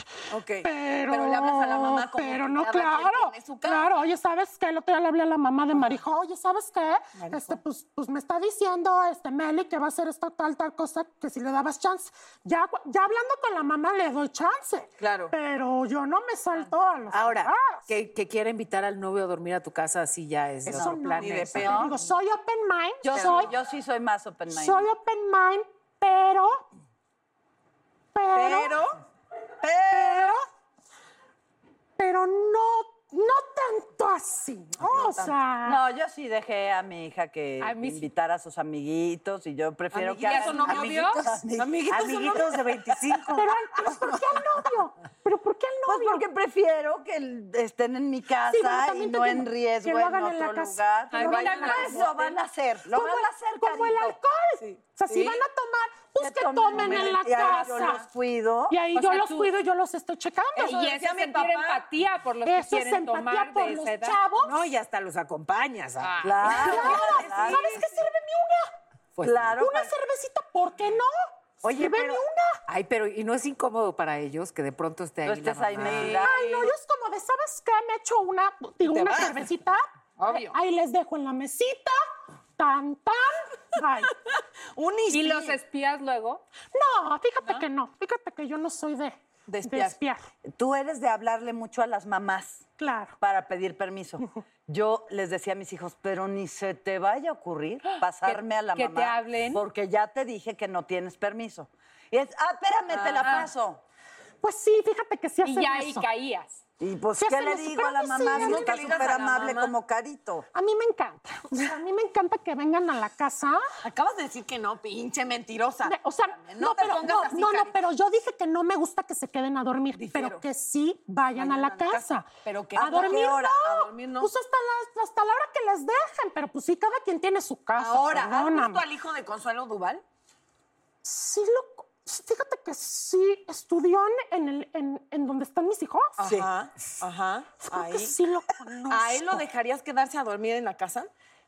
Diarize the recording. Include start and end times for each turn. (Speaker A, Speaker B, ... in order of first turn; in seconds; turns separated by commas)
Speaker A: 0.3-3.9, Speaker B: 0.6-17.9, Speaker A: 7.2-7.6, Speaker A: 15.0-15.3, Speaker C: 17.1-21.9, Speaker B: 20.6-23.5, Speaker A: 20.7-21.9, Speaker D: 21.5-21.9, Speaker D: 23.0-24.9, Speaker A: 23.1-23.6, Speaker B: 24.5-26.7, Speaker B: 28.1-28.8, Speaker A: 28.3-29.0, Speaker D: 29.6-30.2, Speaker B: 29.9-30.4, Speaker B: 32.0-35.8, Speaker A: 34.8-35.4, Speaker D: 35.6-42.4, Speaker E: 37.6-38.1, Speaker A: 39.9-43.2, Speaker E: 40.2-41.2, Speaker C: 41.9-43.6, Speaker B: 43.3-46.2, Speaker D: 45.9-54.2, Speaker B: 48.5-52.0, Speaker E: 51.1-52.2, Speaker A: 51.1-52.4, Speaker B: 52.9-58.0, Speaker A: 54.6-55.5, Speaker D: 56.2-58.8, Speaker A: 56.7-58.0, Speaker B: 58.7-60.7, Speaker E: 59.0-59.5, Speaker A: 60.5-61.9, Speaker E: 60.6-64.2, Speaker B: 62.4-64.7, Speaker C: 64.4-66.4, Speaker E: 66.0-66.7, Speaker D: 66.2-67.8, Speaker B: 66.4-68.7, Speaker A: 66.5-67.9, Speaker C: 69.2-69.5, Speaker D: 69.2-69.9, Speaker B: 69.6-71.1, Speaker B: 71.6-72.6, Speaker C: 71.6-76.2, Speaker D: 75.2-76.6, Speaker A: 75.8-76.3, Speaker B: 75.9-79.8, Speaker A: 78.8-79.5, Speaker A: 80.2-80.5, Speaker B: 80.5-82.0, Speaker B: 82.6-84.1, Speaker A: 84.8-85.6, Speaker E: 85.1-86.4, Speaker B: 86.7-90.2, Speaker A: 89.5-90.0, Speaker D: 90.5-92.7, Speaker B: 92.8-93.2, Speaker D: 93.2-103.8, Speaker E: 98.0-99.6, Speaker A: 102.9-103.5, Speaker E: 103.2-103.5, Speaker B: 104.4-106.1, Speaker E: 105.4-106.6, Speaker D: 106.8-110.5, Speaker B: 107.2-109.2, Speaker A: 108.3-109.7, Speaker B: 110.5-113.7, Speaker A: 113.8-117.9, Speaker B: 115.8-128.8, Speaker A: 119.9-120.4, Speaker A: 121.3-124.3, Speaker D: 122.8-123.6, Speaker A: 127.8-130.0, Speaker B: 131.0-136.3, Speaker A: 136.2-138.2, Speaker B: 137.6-139.4, Speaker A: 138.9-141.1